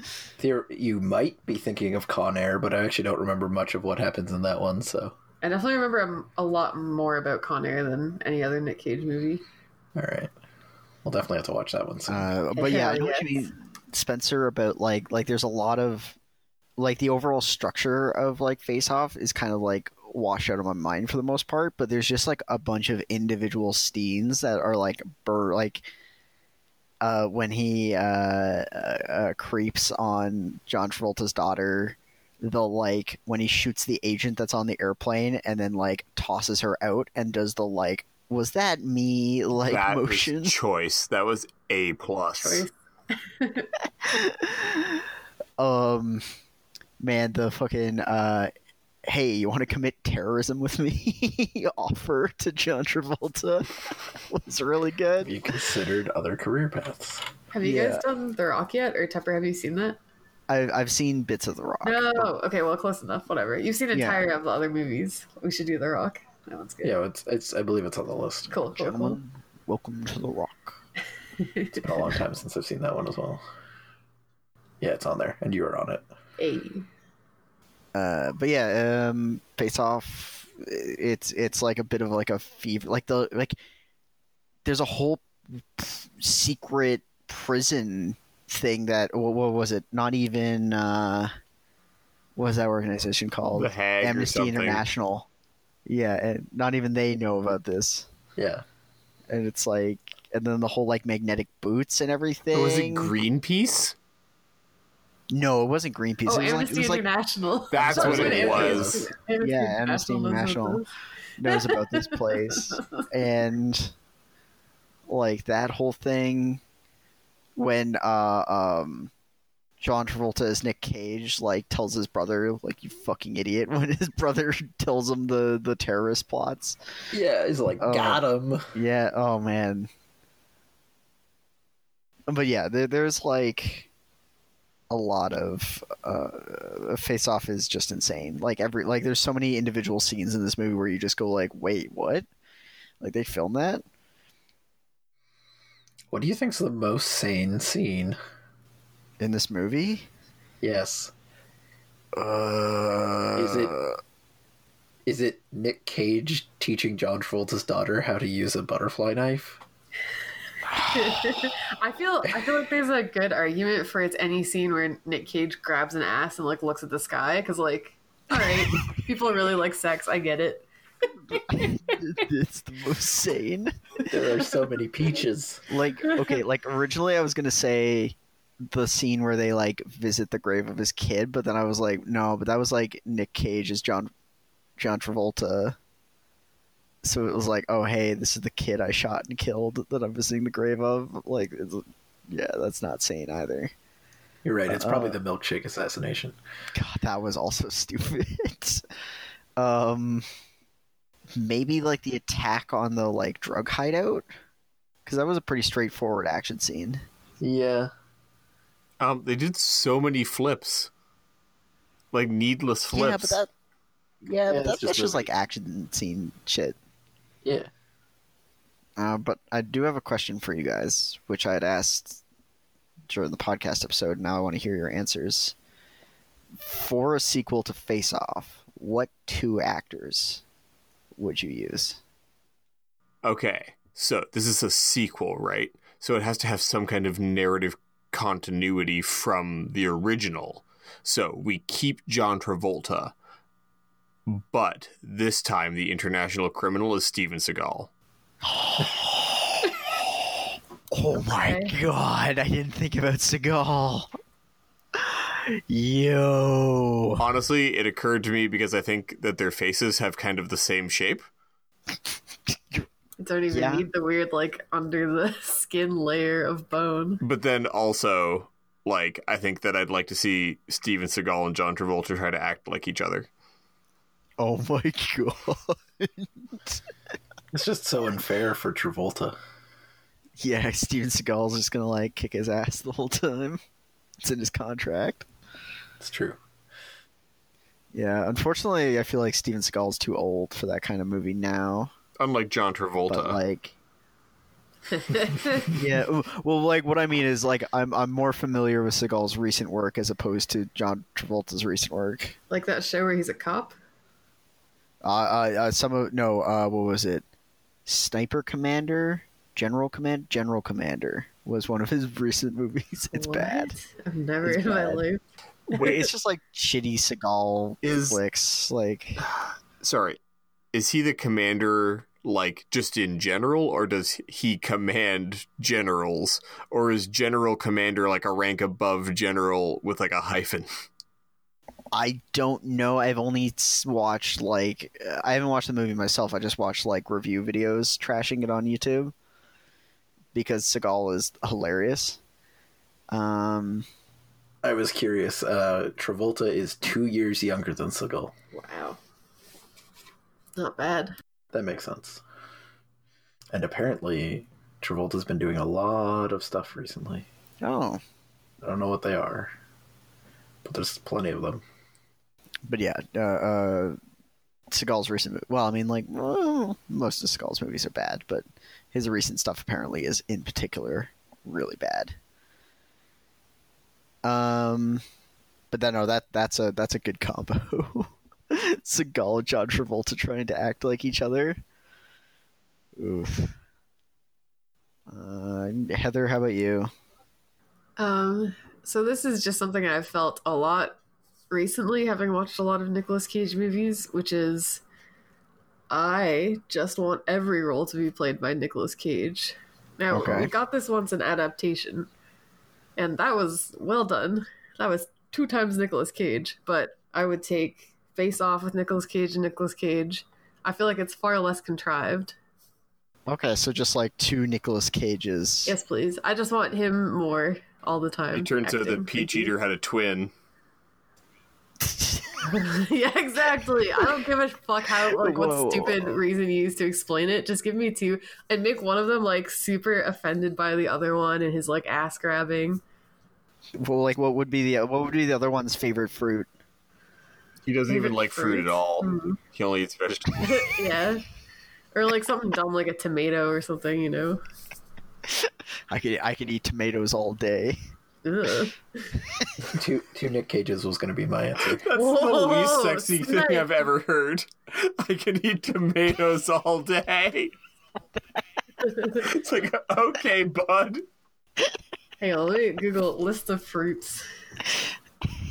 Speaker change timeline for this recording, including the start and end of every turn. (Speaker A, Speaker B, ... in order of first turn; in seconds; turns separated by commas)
Speaker A: 0.4-5.2, Speaker B: 5.4-9.4, Speaker A: 10.0-10.3, Speaker A: 11.0-12.3, Speaker C: 12.1-16.2, Speaker B: 12.6-13.5, Speaker C: 16.8-25.9, Speaker C: 27.0-40.6, Speaker D: 39.6-42.7, Speaker B: 42.4-43.7, Speaker C: 44.0-45.0, Speaker C: 45.6-46.2, Speaker C: 47.0-48.5, Speaker C: 49.1-55.4, Speaker A: 55.2-57.3, Speaker B: 57.5-60.0, Speaker C: 57.6-58.0, Speaker C: 60.5-62.4, Speaker B: 61.8-67.0, Speaker C: 63.9-64.3, Speaker A: 66.8-68.5, Speaker B: 68.5-69.2, Speaker C: 68.8-70.8, Speaker B: 71.4-71.9, Speaker A: 71.8-73.4, Speaker A: 74.8-76.1, Speaker B: 76.4-76.9, Speaker C: 77.9-83.6, Speaker C: 84.7-91.3, Speaker C: 92.4-95.3, Speaker D: 93.5-94.8, Speaker C: 95.9-98.1, Speaker A: 98.4-98.6, Speaker C: 99.3-103.1, Speaker D: 102.5-104.0, Speaker C: 105.3-107.1, Speaker B: 106.3-110.9, Speaker D: 107.7-109.0, Speaker C: 108.0-108.8, Speaker A: 108.0-109.0, Speaker C: 109.4-110.8, Speaker C: 111.4-113.9, Speaker B: 111.5-113.0, Speaker C: 115.1-116.6, Speaker C: 117.6-119.1, Speaker C: 119.8-127.1, Speaker A: 127.1-128.7, Speaker C: 127.8-129.9, Speaker C: 132.3-133.9, Speaker C: 134.9-142.3, Speaker C: 143.0-143.8, Speaker A: 146.1-148.2, Speaker C: 149.2-150.1, Speaker A: 150.6-151.1, Speaker C: 152.1-154.0, Speaker A: 153.4-153.7, Speaker A: 155.1-159.6, Speaker B: 160.9-170.7, Speaker C: 171.3-174.0, Speaker B: 171.3-171.7, Speaker A: 174.1-175.6, Speaker C: 175.7-184.1, Speaker B: 176.1-176.3, Speaker C: 184.8-185.8, Speaker C: 187.0-193.7, Speaker A: 194.4-196.4, Speaker C: 194.7-195.2, Speaker C: 196.7-198.8, Speaker C: 199.6-200.3, Speaker C: 201.3-204.3, Speaker C: 205.1-207.0, Speaker A: 207.4-207.9, Speaker D: 209.0-210.9, Speaker D: 212.1-213.4, Speaker C: 212.9-213.5, Speaker C: 214.3-216.8, Speaker A: 214.3-215.3, Speaker A: 217.4-217.7, Speaker C: 219.0-222.2, Speaker C: 223.1-225.6, Speaker C: 226.6-230.4, Speaker C: 231.2-232.0, Speaker D: 233.2-243.1, Speaker D: 244.3-247.9, Speaker C: 248.4-254.1, Speaker B: 251.2-251.8, Speaker C: 254.9-257.3, Speaker D: 257.2-261.2, Speaker C: 262.5-262.9, Speaker B: 263.2-267.2, Speaker C: 263.5-263.9, Speaker D: 267.2-273.3, Speaker C: 274.4-276.8, Speaker A: 277.5-279.4, Speaker C: 280.4-283.6, Speaker C: 284.2-285.3, Speaker A: 286.0-286.4, Speaker C: 287.9-291.9, Speaker D: 292.2-293.4, Speaker C: 293.1-293.7, Speaker B: 294.9-295.8, Speaker C: 295.7-302.4, Speaker B: 302.5-303.8, Speaker C: 305.0-307.2, Speaker C: 307.9-313.8, Speaker B: 313.1-315.2, Speaker C: 314.4-315.0, Speaker C: 315.7-319.2, Speaker D: 315.7-316.1, Speaker D: 317.8-318.2, Speaker D: 319.2-320.2, Speaker D: 320.7-330.7, Speaker C: 331.9-339.1, Speaker C: 340.3-342.2, Speaker C: 343.1-343.9, Speaker A: 344.6-348.3, Speaker B: 348.5-349.0, Speaker B: 350.6-351.1, Speaker A: 351.5-352.2, Speaker A: 353.5-357.3, Speaker C: 357.6-358.0, Speaker A: 358.6-359.5, Speaker A: 360.6-361.6, Speaker C: 362.7-364.0, Speaker C: 364.7-372.2, Speaker C: 374.2-375.0, Speaker C: 375.7-381.6, Speaker C: 383.0-383.6, Speaker C: 385.1-386.9, Speaker B: 388.0-391.0, Speaker B: 391.5-394.8, Speaker B: 395.9-402.1, Speaker C: 400.1-400.5, Speaker B: 403.0-412.4, Speaker C: 413.3-415.8, Speaker B: 415.7-419.5, Speaker D: 418.3-420.3, Speaker C: 421.9-422.5, Speaker B: 422.5-432.8, Speaker C: 425.1-426.2, Speaker C: 433.8-436.5, Speaker D: 437.7-440.7, Speaker B: 437.9-439.4, Speaker B: 440.4-441.2, Speaker B: 441.9-444.4, Speaker C: 445.3-447.8, Speaker B: 448.2-449.1, Speaker A: 449.7-451.9, Speaker D: 451.8-457.5, Speaker B: 451.9-453.8, Speaker B: 458.8-459.2, Speaker D: 459.1-461.0, Speaker B: 462.2-464.3